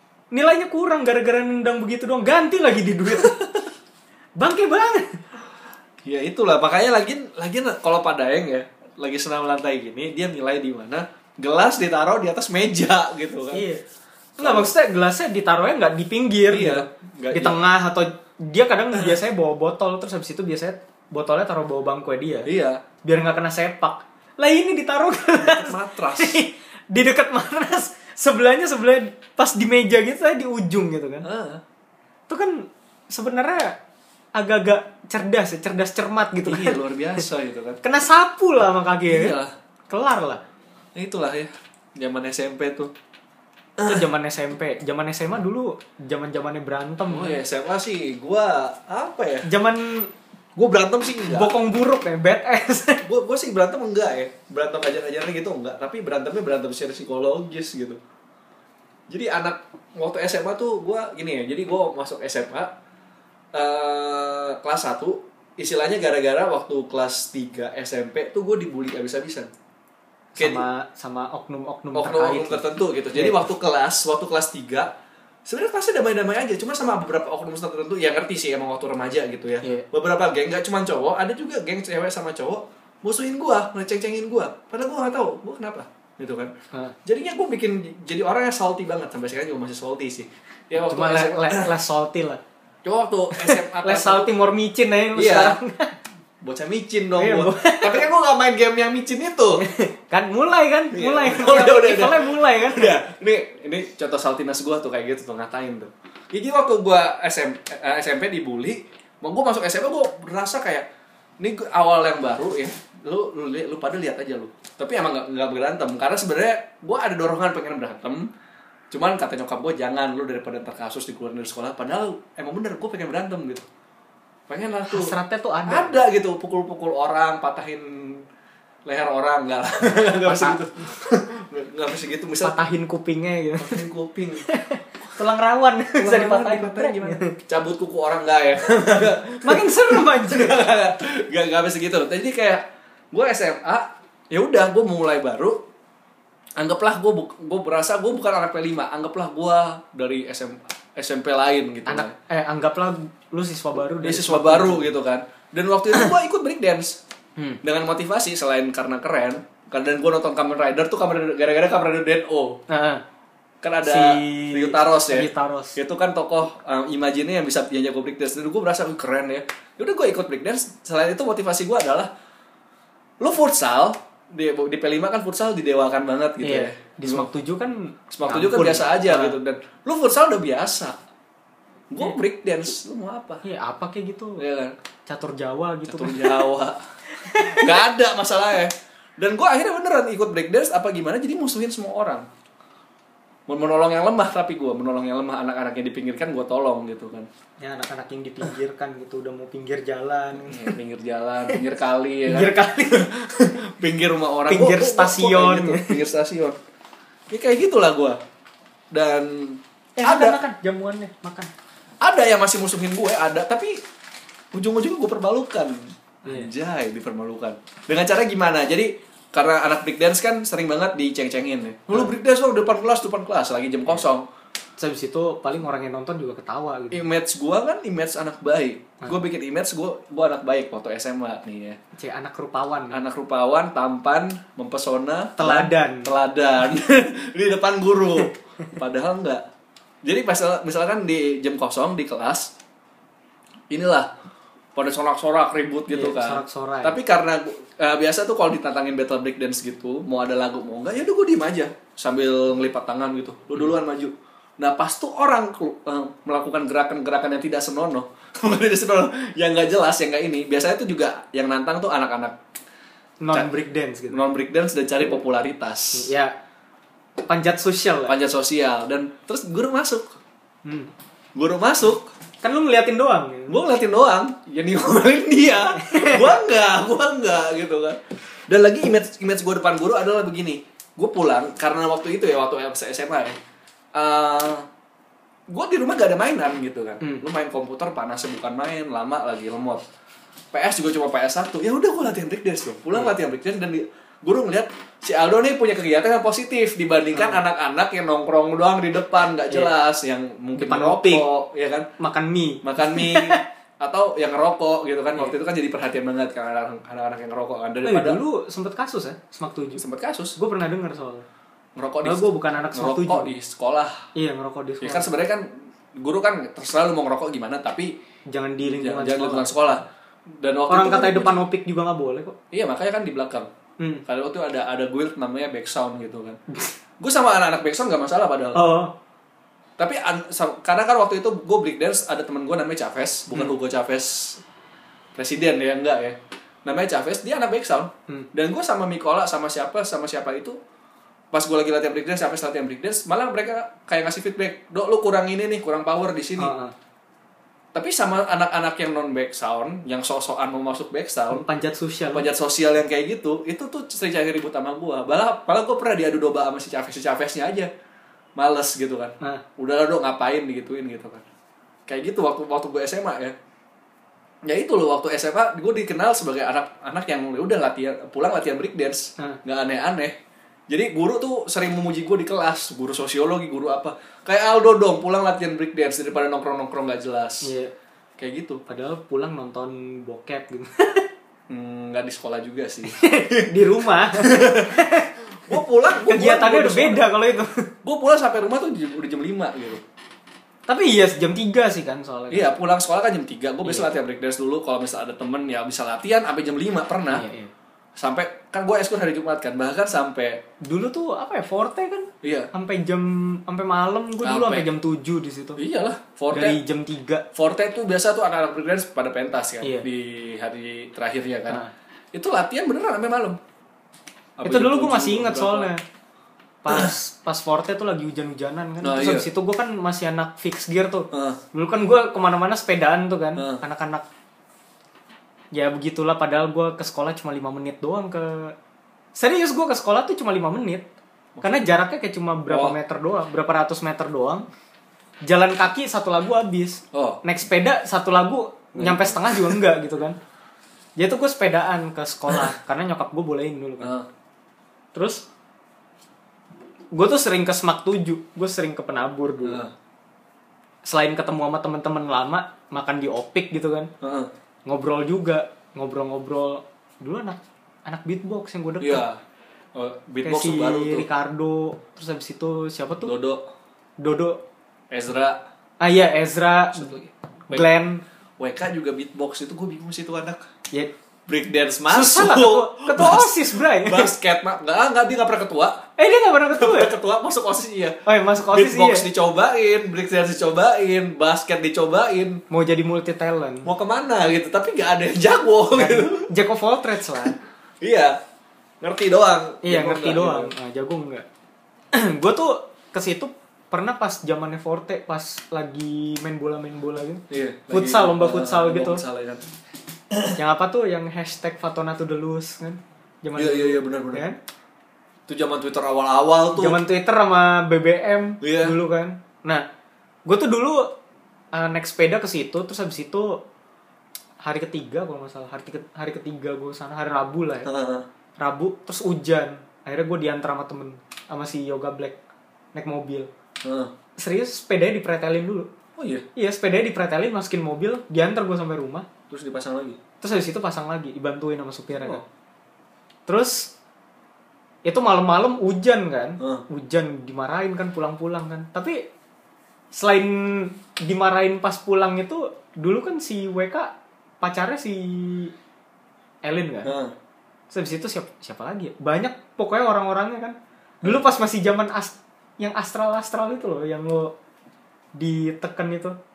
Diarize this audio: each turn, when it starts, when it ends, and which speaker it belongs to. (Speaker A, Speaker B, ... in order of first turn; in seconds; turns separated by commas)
Speaker A: 0.3-3.4, Speaker B: 3.1-3.7, Speaker A: 4.4-5.2, Speaker B: 6.0-13.7, Speaker A: 13.5-13.8, Speaker A: 14.4-22.5, Speaker B: 14.4-14.7, Speaker B: 16.5-17.6, Speaker B: 22.4-22.8, Speaker A: 23.0-31.3, Speaker B: 25.4-26.4, Speaker B: 31.2-31.6, Speaker A: 32.3-33.8, Speaker A: 34.4-37.2, Speaker B: 36.5-37.8, Speaker A: 37.8-39.4, Speaker B: 39.1-39.5, Speaker A: 39.9-40.4, Speaker B: 41.0-42.9, Speaker A: 43.9-47.4, Speaker B: 47.1-49.5, Speaker A: 49.5-50.1, Speaker B: 50.6-51.5, Speaker A: 51.3-53.0, Speaker B: 53.0-58.0, Speaker B: 59.1-62.7, Speaker B: 63.5-69.5, Speaker A: 70.4-72.6, Speaker B: 70.4-70.7, Speaker B: 71.9-74.9, Speaker A: 73.1-73.5, Speaker B: 75.5-86.5, Speaker B: 87.0-91.7, Speaker A: 90.8-92.4, Speaker B: 92.8-94.3, Speaker A: 93.3-95.9, Speaker B: 95.2-95.6, Speaker B: 96.4-99.7, Speaker A: 97.2-98.0, Speaker A: 99.6-103.0, Speaker B: 100.9-110.9, Speaker B: 111.4-118.3, Speaker B: 118.9-123.7, Speaker B: 124.5-125.2, Speaker A: 124.9-126.0, Speaker B: 125.7-128.2, Speaker B: 128.9-132.6, Speaker A: 129.9-130.6, Speaker A: 132.4-133.8, Speaker B: 133.6-134.5, Speaker A: 134.5-137.3, Speaker B: 136.0-145.6, Speaker A: 139.4-140.6, Speaker B: 146.6-152.2, Speaker A: 151.9-154.9, Speaker B: 154.0-157.0, Speaker B: 157.6-162.6, Speaker A: 162.7-163.0, Speaker B: 163.6-172.1, Speaker A: 163.8-165.8, Speaker B: 173.2-177.3, Speaker A: 176.4-179.4, Speaker B: 178.1-181.0, Speaker B: 181.9-183.4, Speaker A: 183.4-184.4, Speaker B: 184.4-184.8, Speaker A: 185.1-186.5, Speaker B: 185.9-192.3, Speaker A: 187.2-187.8, Speaker B: 193.5-197.3, Speaker A: 197.6-200.8, Speaker B: 200.4-206.6, Speaker A: 202.3-203.1, Speaker A: 204.5-206.0, Speaker B: 207.3-208.2, Speaker B: 208.9-210.4, Speaker A: 210.0-211.5, Speaker B: 212.0-213.8, Speaker B: 214.5-224.3, Speaker A: 224.8-227.1, Speaker B: 226.9-231.8, Speaker A: 232.0-233.0, Speaker B: 232.9-239.4, Speaker A: 235.4-236.1, Speaker B: 240.0-242.5, Speaker B: 243.7-244.1, Speaker B: 244.8-262.4, Speaker A: 245.9-247.0, Speaker A: 263.2-264.2, Speaker B: 264.1-266.1, Speaker A: 265.9-266.4, Speaker A: 267.3-268.1, Speaker B: 268.1-270.2, Speaker A: 270.6-270.9, Speaker B: 271.4-272.1, Speaker A: 272.4-273.6, Speaker B: 273.5-283.4, Speaker A: 275.8-276.4, Speaker B: 283.9-284.7, Speaker B: 285.5-289.8, Speaker B: 290.5-301.9, Speaker A: 297.1-297.4, Speaker A: 300.6-301.3, Speaker A: 302.0-303.4, Speaker B: 302.6-308.2, Speaker A: 307.9-309.8, Speaker B: 309.8-310.4, Speaker A: 310.4-311.3, Speaker B: 311.8-314.1, Speaker A: 312.0-313.3, Speaker A: 314.1-315.1, Speaker B: 314.8-317.9, Speaker A: 318.3-319.8, Speaker B: 318.7-321.4, Speaker A: 320.7-322.4, Speaker B: 322.5-323.5, Speaker A: 323.8-324.0, Speaker B: 324.1-326.4, Speaker B: 327.0-328.6, Speaker A: 328.6-328.9, Speaker B: 329.8-334.4, Speaker B: 335.1-340.6, Speaker B: 341.3-346.5, Speaker A: 346.4-346.8, Speaker B: 347.7-351.4, Speaker A: 351.3-352.3, Speaker B: 352.1-357.7, Speaker B: 358.4-361.2, Speaker B: 361.9-363.4, Speaker B: 364.4-370.1, Speaker B: 370.7-377.5, Speaker A: 377.4-377.7, Speaker B: 378.2-378.6, Speaker A: 378.7-381.1, Speaker B: 381.5-383.0, Speaker A: 382.9-387.7, Speaker B: 384.2-384.8, Speaker B: 385.5-387.1, Speaker B: 387.8-389.8, Speaker A: 390.7-392.5, Speaker B: 392.3-397.2, Speaker A: 397.1-397.5, Speaker B: 398.0-400.4, Speaker A: 400.6-405.6, Speaker B: 402.2-402.5, Speaker B: 404.2-404.7, Speaker B: 405.6-406.6, Speaker A: 406.3-407.3, Speaker B: 407.4-411.6, Speaker B: 412.1-413.4, Speaker B: 414.4-415.7, Speaker A: 414.4-415.8, Speaker A: 416.6-424.1, Speaker B: 418.8-419.3, Speaker B: 421.1-421.4, Speaker B: 423.4-423.6, Speaker A: 425.5-428.6, Speaker A: 429.1-430.9, Speaker B: 431.4-431.7, Speaker A: 431.4-434.5, Speaker B: 432.5-432.8, Speaker A: 435.2-440.2, Speaker B: 436.9-437.2, Speaker B: 438.8-439.6, Speaker A: 441.0-443.9, Speaker B: 443.8-444.1, Speaker A: 444.9-445.2, Speaker A: 446.9-449.6, Speaker B: 449.4-449.7, Speaker A: 450.9-453.9, Speaker B: 454.0-454.3, Speaker A: 454.7-459.0, Speaker B: 458.8-459.2, Speaker B: 459.8-461.1, Speaker A: 460.2-463.1, Speaker B: 463.0-463.4, Speaker A: 464.0-464.4, Speaker B: 464.9-465.4, Speaker A: 465.8-466.9, Speaker B: 466.7-467.7, Speaker A: 467.5-468.0, Speaker B: 468.4-470.4, Speaker B: 471.3-475.9, Speaker A: 471.9-474.1, Speaker A: 476.0-476.9, Speaker B: 476.6-478.0, Speaker A: 478.1-479.1, Speaker B: 478.5-482.4, Speaker A: 482.5-483.7, Speaker B: 483.6-486.3, Speaker A: 485.7-487.4, Speaker B: 487.8-488.2, Speaker B: 488.8-490.5, Speaker A: 489.6-491.3, Speaker A: 491.9-499.0, Speaker B: 497.3-499.4, Speaker B: 500.1-500.4, Speaker A: 500.4-504.4, Speaker B: 503.4-504.3, Speaker B: 505.3-506.8, Speaker A: 506.5-509.6, Speaker B: 508.4-508.8, Speaker A: 510.3-510.9, Speaker A: 511.5-513.4, Speaker A: 514.4-517.7, Speaker B: 517.6-518.0, Speaker A: 518.4-522.2, Speaker A: 522.7-523.3, Speaker B: 523.6-523.9, Speaker A: 524.2-525.7, Speaker B: 526.0-526.2, Speaker A: 526.4-529.1, Speaker B: 529.3-530.0, Speaker A: 530.2-532.2, Speaker B: 532.0-532.2, Speaker A: 533.3-533.7, Speaker A: 534.9-539.1, Speaker B: 536.4-536.6, Speaker A: 539.9-545.5, Speaker A: 546.4-546.9, Speaker B: 546.8-547.1, Speaker A: 547.7-554.3, Speaker A: 555.1-556.2